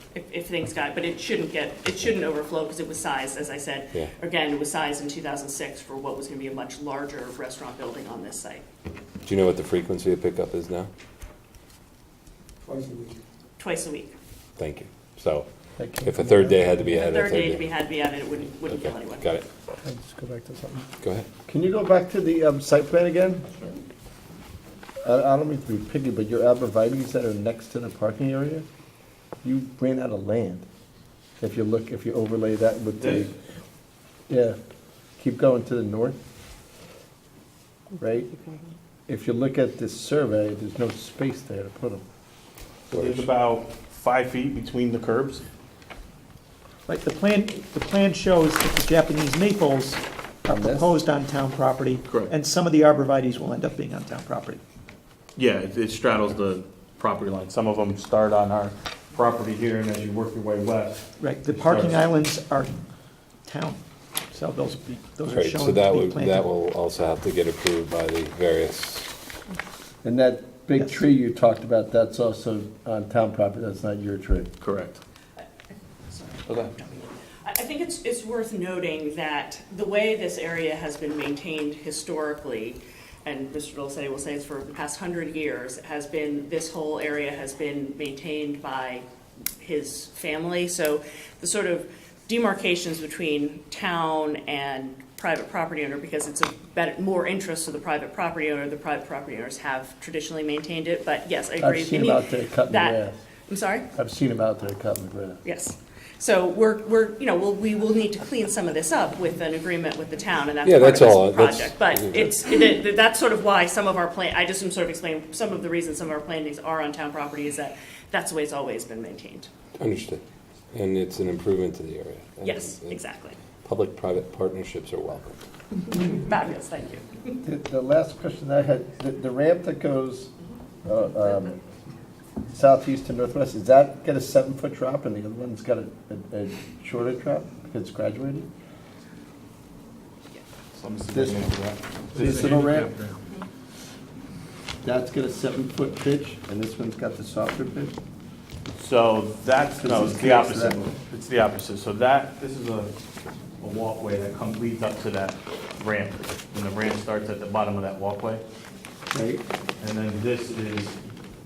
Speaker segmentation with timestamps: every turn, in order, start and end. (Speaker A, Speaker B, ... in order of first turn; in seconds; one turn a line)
Speaker A: 0.1-8.6
Speaker B: 9.2-10.9
Speaker C: 12.7-13.2
Speaker A: 13.6-14.1
Speaker B: 14.6-15.5
Speaker D: 15.8-16.8
Speaker B: 16.0-17.7
Speaker A: 16.9-19.4
Speaker B: 18.7-19.4
Speaker D: 19.8-20.9
Speaker B: 21.0-21.3
Speaker D: 21.5-23.6
Speaker D: 25.0-28.6
Speaker D: 29.4-30.6
Speaker D: 31.4-33.3
Speaker E: 33.0-33.3
Speaker D: 34.3-34.6
Speaker D: 35.2-36.2
Speaker D: 38.0-38.3
Speaker D: 39.1-42.0
Speaker E: 42.9-45.4
Speaker C: 46.9-54.6
Speaker D: 50.5-51.0
Speaker E: 52.1-52.3
Speaker E: 55.4-62.0
Speaker C: 61.2-62.7
Speaker C: 63.5-63.8
Speaker C: 64.3-66.5
Speaker B: 65.3-69.1
Speaker D: 70.0-74.5
Speaker E: 74.6-75.0
Speaker A: 76.1-89.0
Speaker E: 76.5-76.8
Speaker A: 89.6-103.9
Speaker D: 101.6-103.2
Speaker D: 103.9-105.4
Speaker A: 105.4-119.5
Speaker B: 110.6-112.4
Speaker B: 119.8-120.2
Speaker B: 120.7-123.0
Speaker A: 122.4-123.4
Speaker B: 123.6-125.4
Speaker A: 125.9-127.3
Speaker D: 127.4-130.3
Speaker D: 130.8-131.6
Speaker D: 132.5-138.5
Speaker E: 140.7-143.1
Speaker D: 141.1-141.5
Speaker D: 142.1-142.9
Speaker D: 144.8-148.0
Speaker E: 148.8-153.0
Speaker D: 149.8-150.9
Speaker E: 153.6-158.4
Speaker D: 159.1-159.4
Speaker E: 159.8-161.0